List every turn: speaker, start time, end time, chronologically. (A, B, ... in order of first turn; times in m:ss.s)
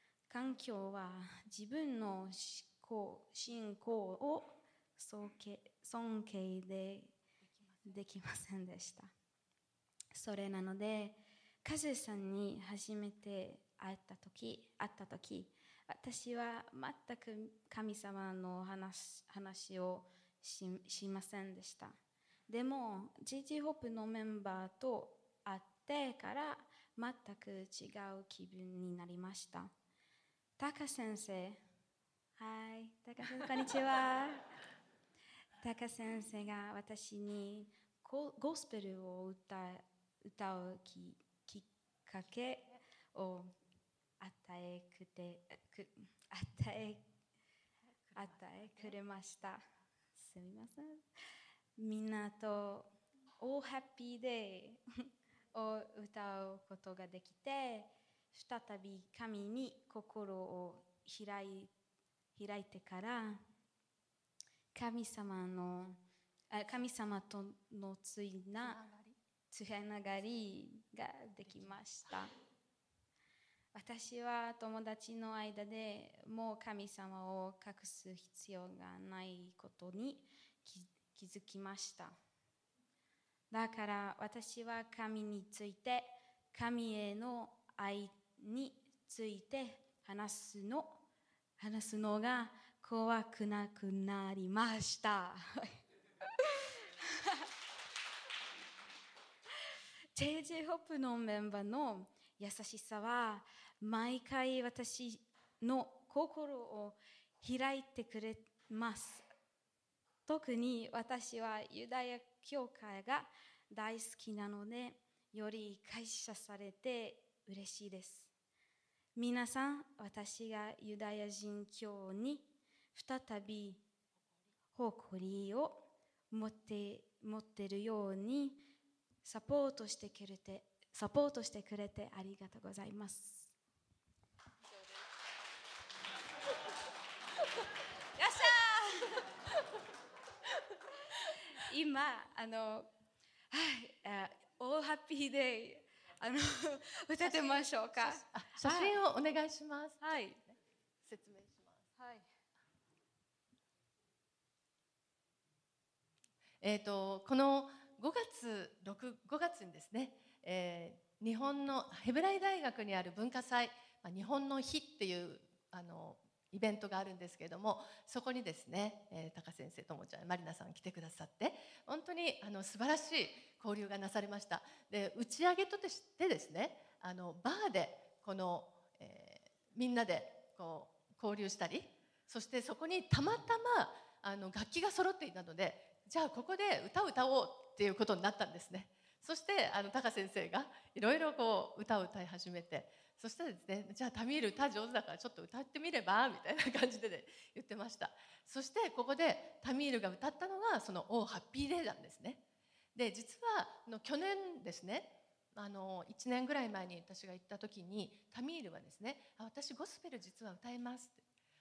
0:00.3-0:07.2 A
0:07.8-0:09.1 A
0:10.1-0:22.0 A
0:22.5-0:29.7 A
0:30.6-0:31.6 A
0:32.4-0:34.4 A
0:35.6-0:43.5 A
0:44.2-0:47.0 A
0:48.1-0:49.0 B
0:48.1-0:49.6 A
0:50.2-0:51.0 A
0:51.8-0:54.8 A
0:55.5-1:01.7 A
1:02.3-1:03.4 A
1:04.7-1:08.8 A
1:08.6-1:09.2 B
1:09.5-1:12.3 A
1:11.4-1:12.2 B
1:13.7-1:22.2 A
1:23.5-1:31.0 A
1:31.6-1:35.7 A
1:40.1-1:49.2 A
1:50.2-1:58.3 A
1:59.2-2:03.8 A
2:04.7-2:08.6 A
2:09.2-2:13.5 A
2:18.2-2:19.2 A
2:21.6-2:22.9 A
2:23.5-2:29.0 A
2:27.2-2:31.9 B
2:30.0-2:30.4 A
2:32.0-2:32.2 A
2:36.6-3:22.4 B
3:22.9-3:31.2 B